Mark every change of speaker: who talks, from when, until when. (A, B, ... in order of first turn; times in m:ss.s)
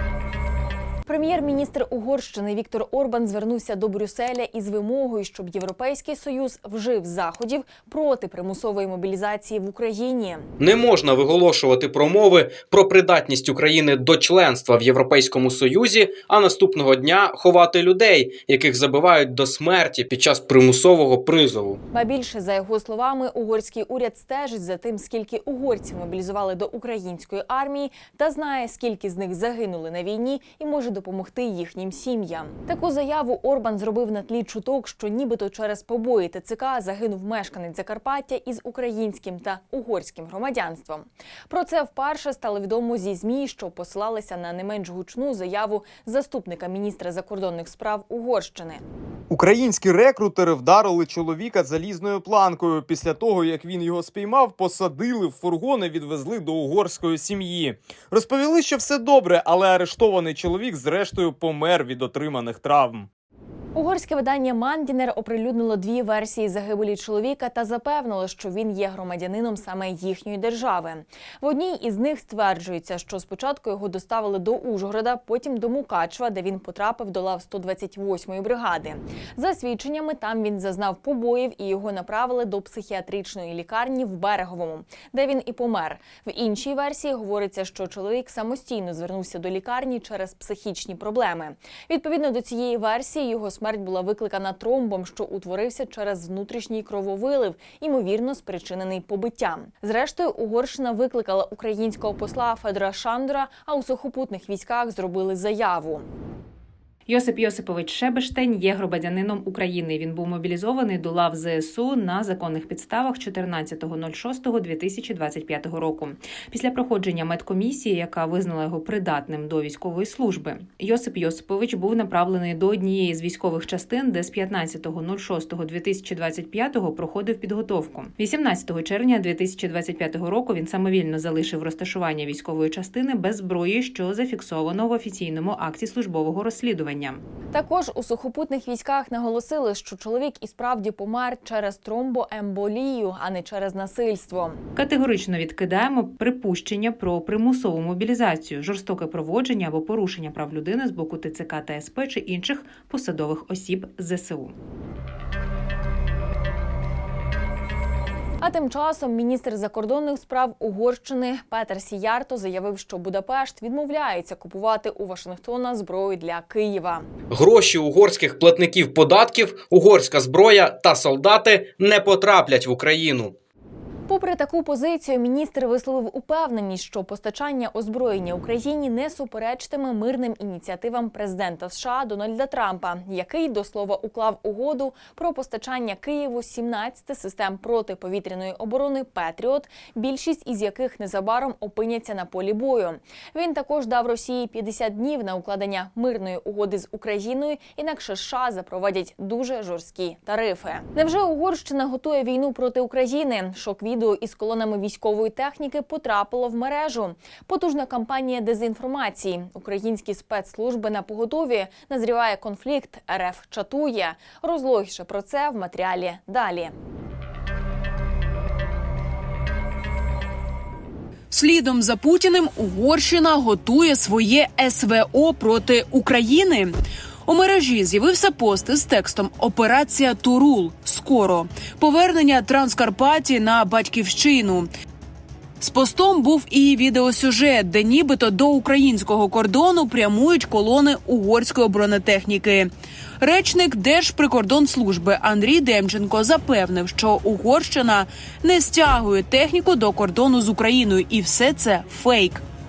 0:01.1-0:10.5 A
0:10.6-0:21.8 B
0:21.9-0:48.8 A
0:49.3-1:03.1 C
1:03.7-1:46.0 A
1:47.1-2:17.2 D
2:17.5-2:24.6 A
2:24.8-2:34.5 D
2:38.4-2:47.0 A
2:47.3-2:53.3 B
2:54.1-3:36.7 A
3:41.3-3:46.7 E
3:47.2-3:54.7 E
3:55.6-4:02.7 E
4:03.2-4:12.4 E